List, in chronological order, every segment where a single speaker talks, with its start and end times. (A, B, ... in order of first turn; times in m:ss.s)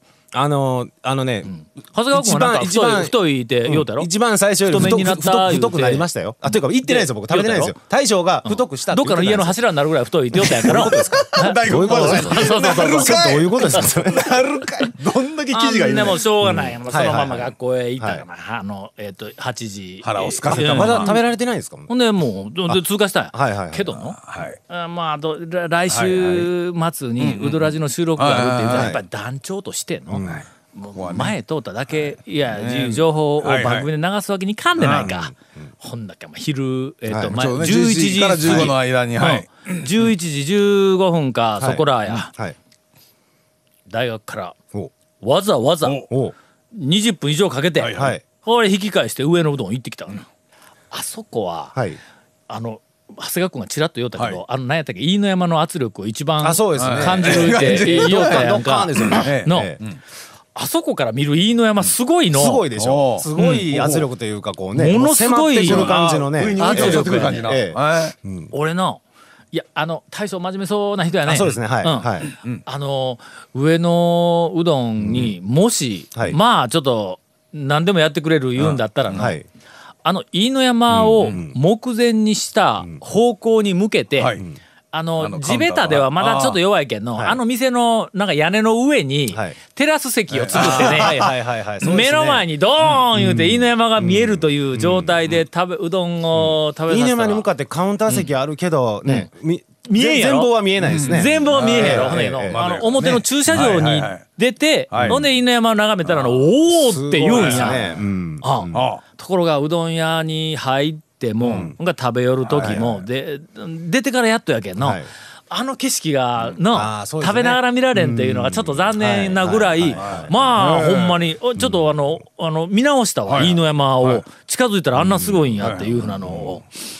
0:00.3-0:01.5 A
0:01.5-0:04.1 B
0:02.1-0:09.6 A
0:04.6-0:06.0 B
0:06.8-0:07.7 B
0:08.4-0:13.2 B
0:10.4-0:14.3 A
0:10.7-0:16.2 C
0:15.5-0:21.2 B
0:16.4-0:18.2 A
0:20.0-0:21.2 C
0:20.5-0:21.9 A
0:21.9-0:42.3 B
0:23.3-0:24.1 A
0:24.2-0:24.6 C
0:25.9-0:26.5 C
0:27.2-0:28.9 C
0:28.7-0:29.0 A
0:30.1-0:30.4 A
0:31.0-0:31.3 C
0:32.5-0:33.9 C
0:34.8-0:35.1 C
0:34.8-0:35.3 A
0:37.1-0:37.3 A
0:37.3-0:39.8 C
0:38.5-0:38.7 A
0:41.6-0:42.6 A
0:43.9-0:44.6 B
0:45.2-0:46.1 B
0:46.1-0:46.3 A
0:46.7-0:50.2 B
0:47.8-0:48.1 C
0:47.9-0:48.2 A
0:50.9-0:51.8 B
0:52.5-0:59.7 B
0:54.2-0:54.4 C
0:56.4-0:59.8 A
0:56.8-1:00.0 C
1:00.5-1:02.6 B
1:02.3-1:08.5 A
1:02.8-1:04.1 C
1:03.4-1:03.7 B
1:04.7-1:06.0 B
1:05.6-1:08.1 C
1:06.6-1:07.5 B
1:08.5-1:09.0 B
1:09.5-1:19.4 B
1:11.2-1:12.3 A
1:12.3-1:12.6 C
1:15.0-1:15.3 A
1:18.6-1:19.3 C
1:19.1-1:19.4 A
1:20.0-1:24.4 B
1:20.9-1:21.6 A
1:24.2-1:24.4 C
1:24.9-1:37.5 B
1:25.2-1:26.6 C
1:29.3-1:29.6 A
1:30.3-1:31.3 C
1:30.5-1:32.4 A
1:33.1-1:35.4 A
1:36.3-1:42.7 A
1:39.8-2:06.6 B
1:40.8-1:44.2 C
1:44.9-1:45.2 C
1:45.0-1:45.2 A
1:46.7-1:48.8 A
1:47.3-1:48.0 C
1:48.7-1:49.0 C
1:51.4-1:51.7 C
1:52.5-1:53.0 C
1:54.8-1:55.1 A
1:56.4-2:00.6 A
2:00.0-2:01.3 C
2:01.6-2:01.9 A
2:03.3-2:04.2 C
2:05.0-2:05.7 A
2:05.6-2:06.6 C